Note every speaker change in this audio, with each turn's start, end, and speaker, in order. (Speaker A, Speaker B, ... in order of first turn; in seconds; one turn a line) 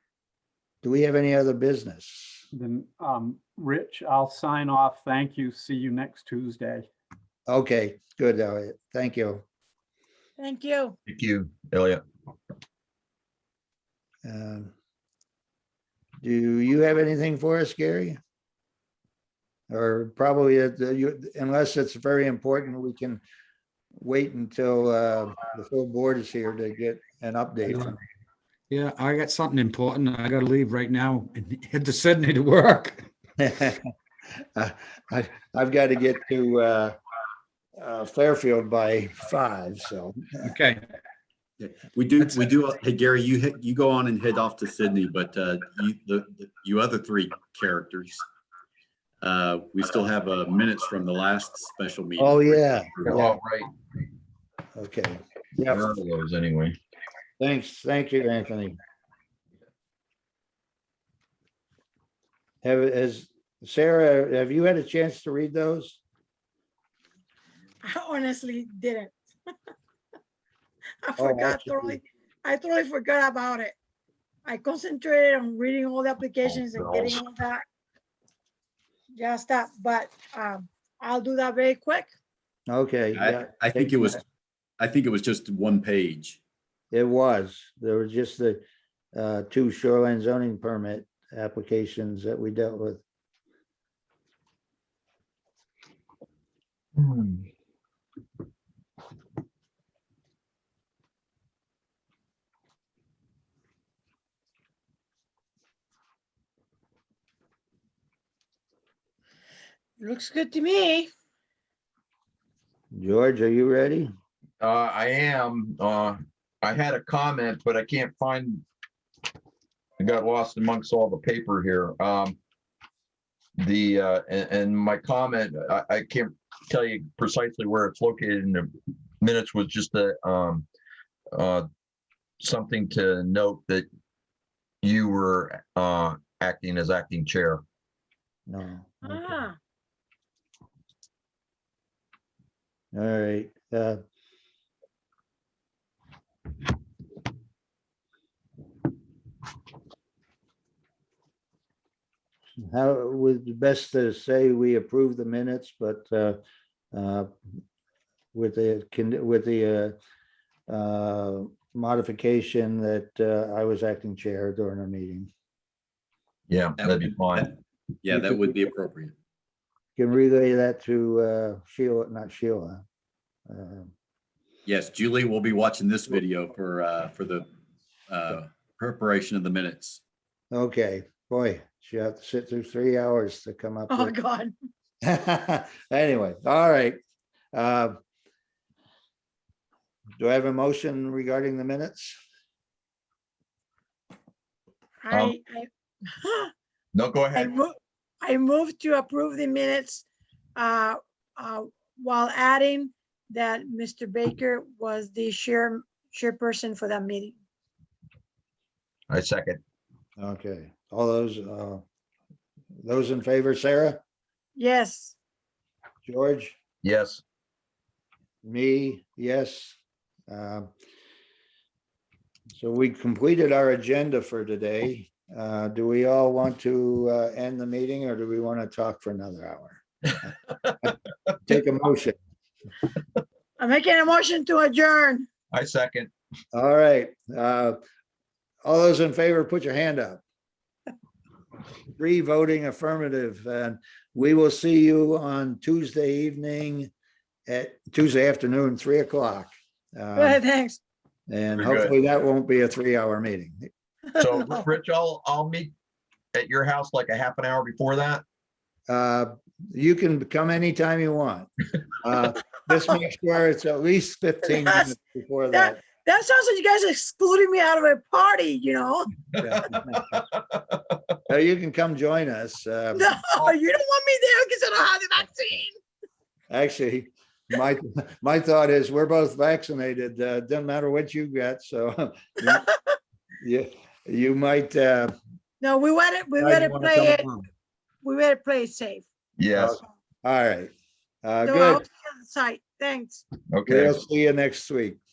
Speaker A: 0.8-2.4
Speaker B: 2.5-6.9
Speaker A: 7.5-9.4
Speaker C: 10.4-10.9
Speaker D: 11.1-12.0
Speaker A: 14.2-14.7
Speaker A: 16.2-18.2
Speaker A: 19.7-23.2
Speaker A: 24.0-28.0
Speaker E: 28.7-33.0
Speaker A: 33.4-33.9
Speaker A: 34.5-37.0
Speaker A: 37.8-40.4
Speaker E: 40.4-40.8
Speaker F: 41.6-48.2
Speaker F: 49.2-53.3
Speaker A: 52.2-53.4
Speaker D: 53.0-53.7
Speaker A: 54.7-55.8
Speaker D: 55.6-56.8
Speaker A: 57.4-58.8
Speaker A: 62.6-66.0
Speaker C: 67.8-69.1
Speaker C: 71.0-73.7
Speaker A: 71.2-72.0
Speaker C: 74.5-77.6
Speaker D: 76.4-77.2
Speaker C: 79.1-82.1
Speaker A: 82.7-84.1
Speaker F: 83.2-84.2
Speaker F: 84.8-86.4
Speaker A: 86.9-88.6
Speaker A: 89.1-93.0
Speaker D: 97.0-97.4
Speaker C: 110.0-111.1
Speaker A: 112.9-114.1
Speaker D: 114.6-118.6
Speaker D: 120.0-122.4
Speaker D: 123.6-128.7
Speaker D: 129.2-130.7
Speaker D: 131.3-131.7
Speaker D: 132.4-133.8
Speaker D: 134.8-137.6
Speaker A: 138.5-139.4
Speaker C: 139.0-139.6
Speaker A: 142.9-144.0
Speaker A: 152.7-156.4
Speaker A: 156.9-157.3
Speaker A: 158.3-159.9
Speaker A: 160.7-165.3
Speaker D: 166.5-167.5
Speaker F: 166.8-169.1
Speaker A: 168.1-168.4
Speaker A: 170.0-172.8
Speaker A: 173.5-173.9
Speaker F: 174.7-177.4
Speaker F: 178.1-180.0
Speaker A: 180.5-184.1
Speaker C: 183.9-184.5
Speaker A: 185.0-187.0
Speaker A: 187.5-188.0
Speaker A: 190.2-192.2
Speaker C: 195.0-196.5
Speaker D: 195.1-195.3
Speaker D: 196.9-197.6
Speaker C: 197.3-200.0
Speaker C: 200.6-207.3
Speaker D: 209.1-209.6
Speaker A: 210.2-211.8
Speaker A: 212.8-214.0
Speaker C: 214.6-215.2
Speaker A: 216.0-216.6
Speaker D: 216.8-217.2
Speaker A: 218.4-219.8
Speaker A: 220.3-220.7
Speaker A: 222.5-230.9
Speaker A: 231.4-232.2
Speaker C: 233.6-235.2
Speaker D: 235.5-236.1
Speaker A: 236.5-237.8
Speaker A: 238.6-240.2
Speaker A: 242.0-246.9
Speaker A: 247.5-250.4
Speaker C: 250.2-250.8
Speaker A: 251.3-253.7
Speaker D: 251.6-251.9
Speaker D: 254.2-255.7
Speaker C: 254.2-254.6
Speaker D: 256.3-258.2
Speaker A: 258.9-265.8
Speaker C: 264.4-264.9
Speaker C: 265.5-269.7
Speaker A: 269.4-270.0
Speaker D: 269.9-270.9
Speaker A: 271.3-273.1
Speaker C: 272.9-275.8
Speaker A: 276.5-282.6
Speaker C: 282.4-283.0
Speaker A: 283.4-285.1
Speaker C: 285.6-287.3
Speaker A: 286.4-287.5
Speaker C: 288.0-289.0
Speaker D: 289.4-289.8
Speaker A: 289.5-290.7
Speaker A: 291.2-291.8
Speaker C: 291.4-293.2
Speaker D: 293.5-294.0
Speaker A: 293.6-295.0